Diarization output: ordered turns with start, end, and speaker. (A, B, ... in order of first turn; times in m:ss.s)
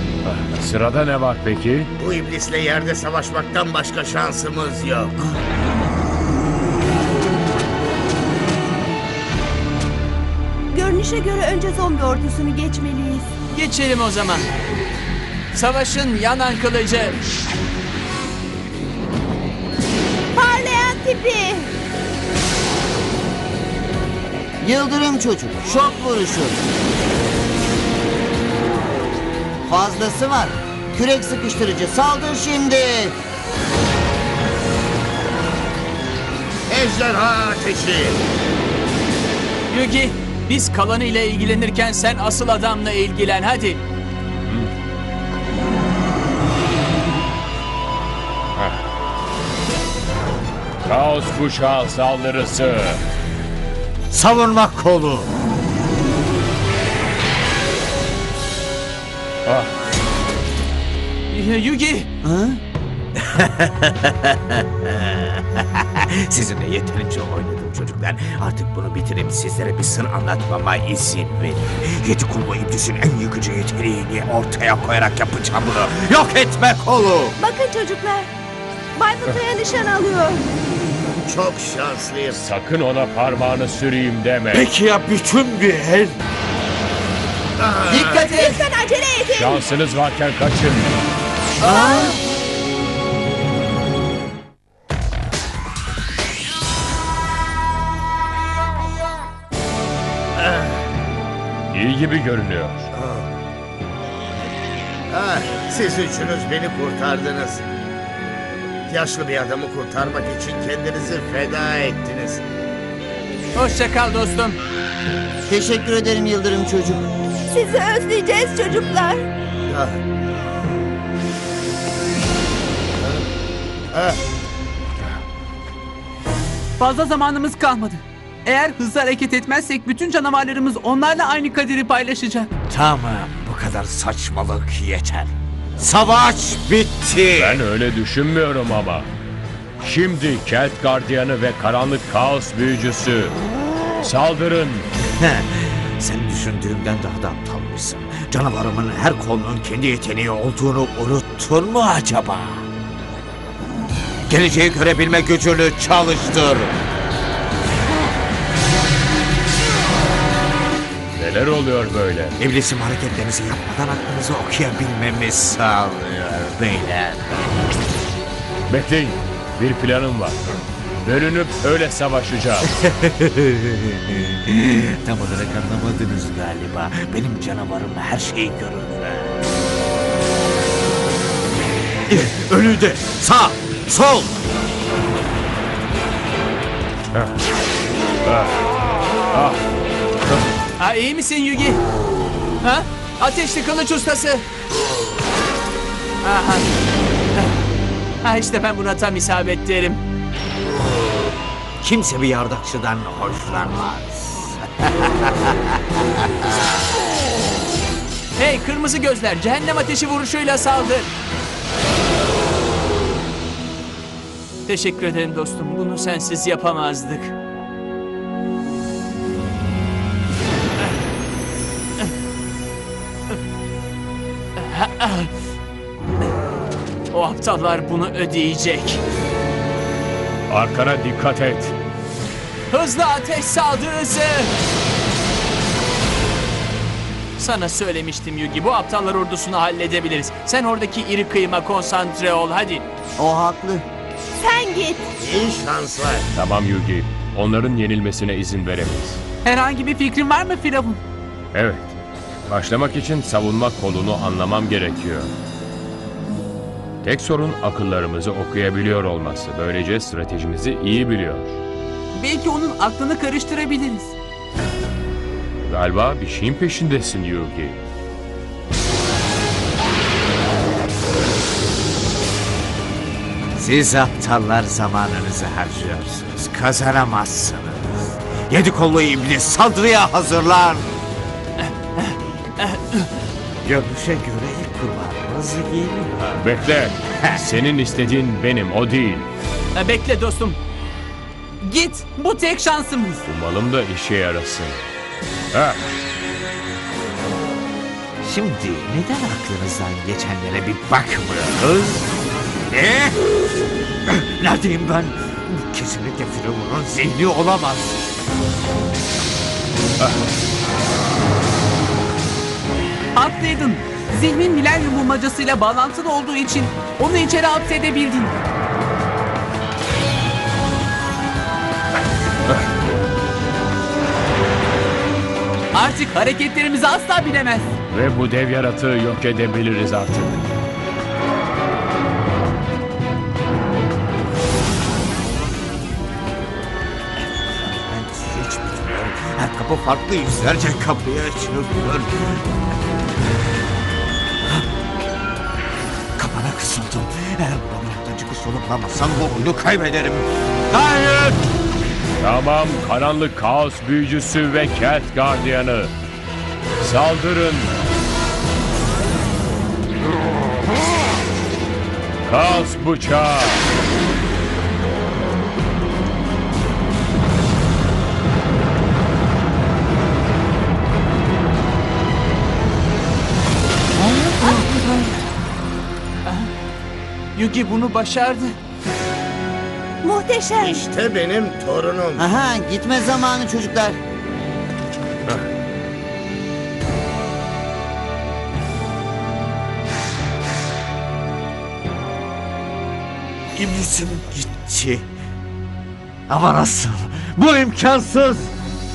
0:00.2-0:01.9 A
0:02.0-0:05.2 B
0:10.7-0:13.3 C
0:13.5-0:14.5 D
0:15.5-0:17.2 D
0:20.3-0:21.7 C
0:24.6-0:26.6 E
0:29.7-0:33.1 E
0:36.7-0:38.2 B
0:39.7-0:43.8 D
0:44.4-0:44.7 A
0:48.6-0:48.8 A
0:50.8-0:53.0 A
0:54.1-0:55.3 F
0:59.4-0:59.7 A
1:01.3-1:02.1 D
1:02.2-1:02.6 E
1:03.2-1:17.4 F
1:17.4-1:18.3 C
1:18.9-1:20.5 C
1:21.2-1:22.4 B
1:22.4-1:24.7 A
1:24.5-1:26.2 F
1:27.6-1:28.2 B
1:27.8-1:28.6 E
1:27.9-1:29.6 C
1:29.3-1:31.0 A
1:31.6-1:32.2 C
1:31.6-1:32.1 E
1:41.7-1:42.9 A
1:42.9-1:43.3 B
1:45.1-1:47.6 B
1:48.9-1:52.4 B
1:53.6-1:54.6 D
1:55.5-1:57.0 E
1:57.5-1:59.3 C
1:59.7-1:59.9 B
2:03.9-2:04.2 B
2:06.8-2:12.5 G
2:12.7-2:17.6 F
2:17.4-2:19.1 A
2:19.8-2:23.4 A
2:24.0-2:24.9 A
2:25.2-2:32.7 F
2:34.3-2:36.8 F
2:41.2-2:42.4 A
2:42.4-2:47.4 F
2:48.7-2:50.4 A
2:51.0-2:52.7 A
2:52.6-2:59.4 F
3:02.1-3:04.3 F
3:08.2-3:08.7 A
3:09.3-3:09.6 A
3:10.8-3:11.8 D
3:12.6-3:14.4 D
3:16.2-3:16.7 D
3:18.2-3:20.0 D
3:21.8-3:26.7 F
3:28.4-3:31.1 D
3:34.6-3:37.3 D
3:44.7-3:45.3 D
3:47.1-3:49.0 D
3:50.5-3:51.7 A
3:52.7-3:54.5 D
3:57.4-4:02.8 D
4:03.2-4:03.8 E
4:04.4-4:05.1 C
4:05.2-4:06.3 B
4:06.3-4:09.2 A
4:09.4-4:11.0 G
4:11.5-4:11.9 A
4:12.5-4:15.3 A
4:17.0-4:21.6 A
4:22.1-4:24.1 G
4:25.6-4:27.8 A
4:33.6-4:41.0 F
4:42.0-4:43.1 D
4:43.6-4:46.4 F
4:46.4-4:49.3 A
4:49.7-4:50.6 D
4:51.6-4:53.2 G
4:53.2-4:54.8 A
4:55.5-4:55.9 A
4:58.2-5:02.1 F
5:02.7-5:03.2 F
5:04.1-5:08.3 F
5:13.2-5:18.4 G
5:25.7-5:27.6 G
5:27.9-5:30.5 A
5:37.3-5:42.6 F
5:46.2-5:51.4 F
5:52.2-5:55.9 A
5:56.8-5:57.8 A
6:02.2-6:03.7 A
6:14.3-6:14.8 E
6:17.4-6:18.5 G
6:20.0-6:20.8 C
6:20.6-6:22.2 B
6:22.2-6:24.0 E
6:33.5-6:35.0 F
6:36.3-6:38.5 F